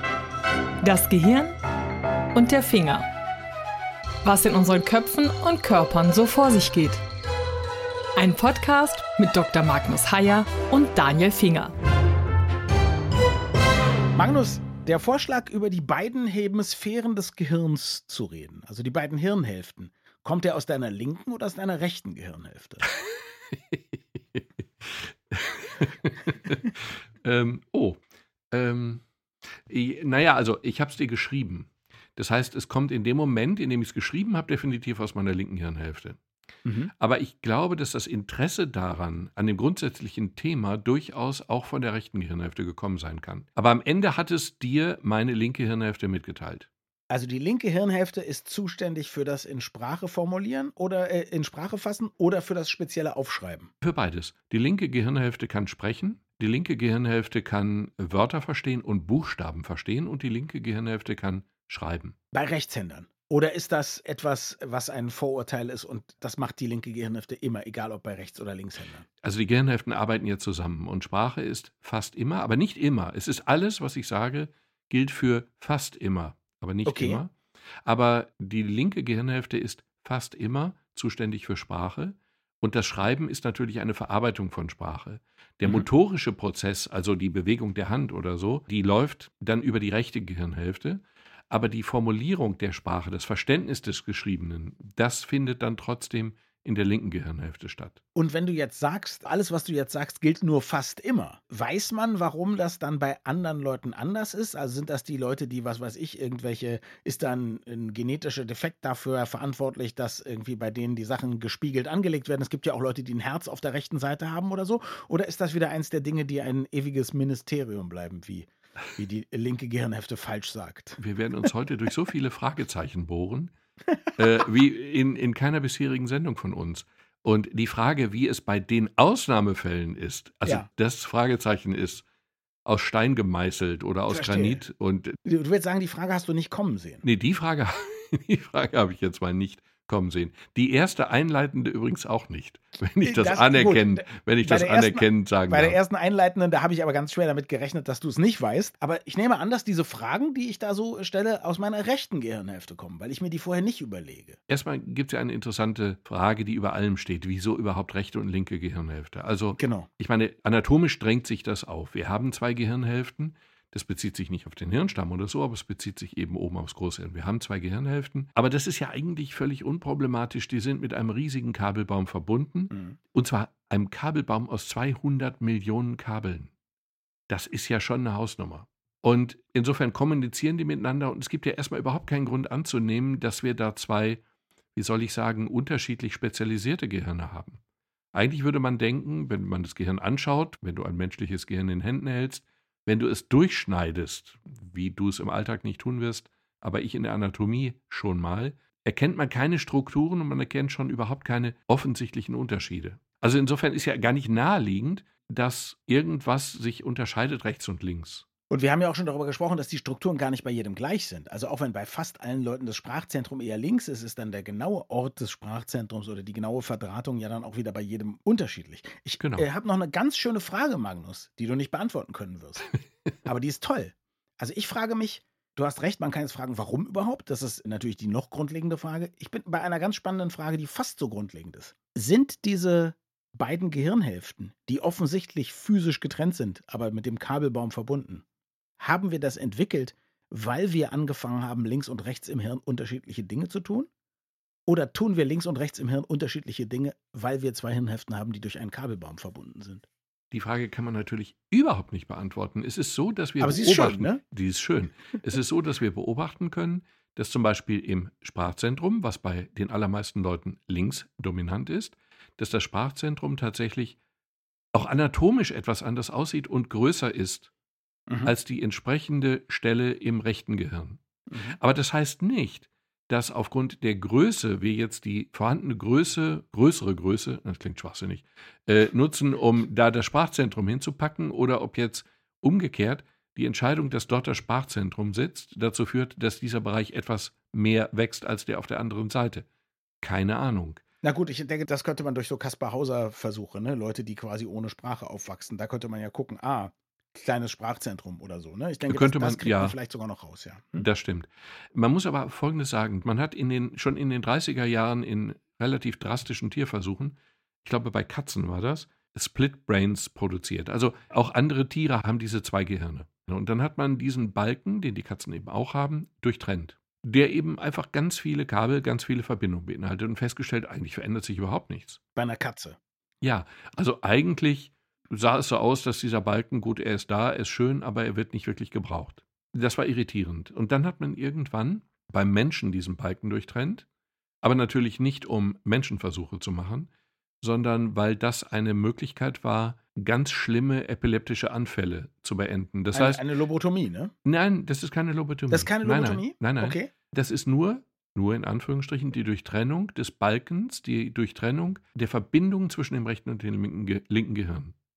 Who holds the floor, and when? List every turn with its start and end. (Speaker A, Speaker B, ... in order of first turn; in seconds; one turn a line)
Speaker A: 0.8-1.5
Speaker A: 2.4-3.1
Speaker A: 4.2-7.0
Speaker A: 8.2-11.7
Speaker B: 14.2-22.9
Speaker C: 22.9-28.0
Speaker C: 28.5-29.0
Speaker C: 29.7-36.2
Speaker B: 36.6-36.9
Speaker C: 37.0-46.7
Speaker B: 47.1-53.7
Speaker C: 53.8-62.2
Speaker B: 62.3-69.1
Speaker C: 69.2-98.0
Speaker B: 76.8-77.2
Speaker B: 98.2-121.0
Speaker C: 121.0-123.5
Speaker C: 124.2-132.1
Speaker C: 132.7-135.2
Speaker B: 134.1-134.6
Speaker B: 135.2-137.1
Speaker C: 137.0-145.8
Speaker B: 143.0-154.4
Speaker C: 154.5-176.5
Speaker B: 159.6-159.9
Speaker B: 172.7-173.0
Speaker C: 177.3-184.2
Speaker C: 184.8-187.6
Speaker C: 188.1-208.3
Speaker B: 208.5-222.7
Speaker C: 219.2-219.5
Speaker B: 223.2-238.2
Speaker B: 238.8-243.9
Speaker B: 244.7-249.9
Speaker C: 250.3-264.0
Speaker B: 253.4-254.2
Speaker C: 264.7-267.5
Speaker B: 268.1-268.3
Speaker C: 268.2-271.0
Speaker B: 271.3-271.6
Speaker C: 271.6-289.5
Speaker C: 290.0-290.8
Speaker B: 291.0-300.9
Speaker C: 298.9-299.8
Speaker C: 300.8-322.0
Speaker B: 322.2-322.8
Speaker C: 323.2-333.9
Speaker C: 334.4-336.9
Speaker C: 337.4-343.2
Speaker B: 342.9-344.1
Speaker C: 344.2-354.8
Speaker B: 345.5-346.9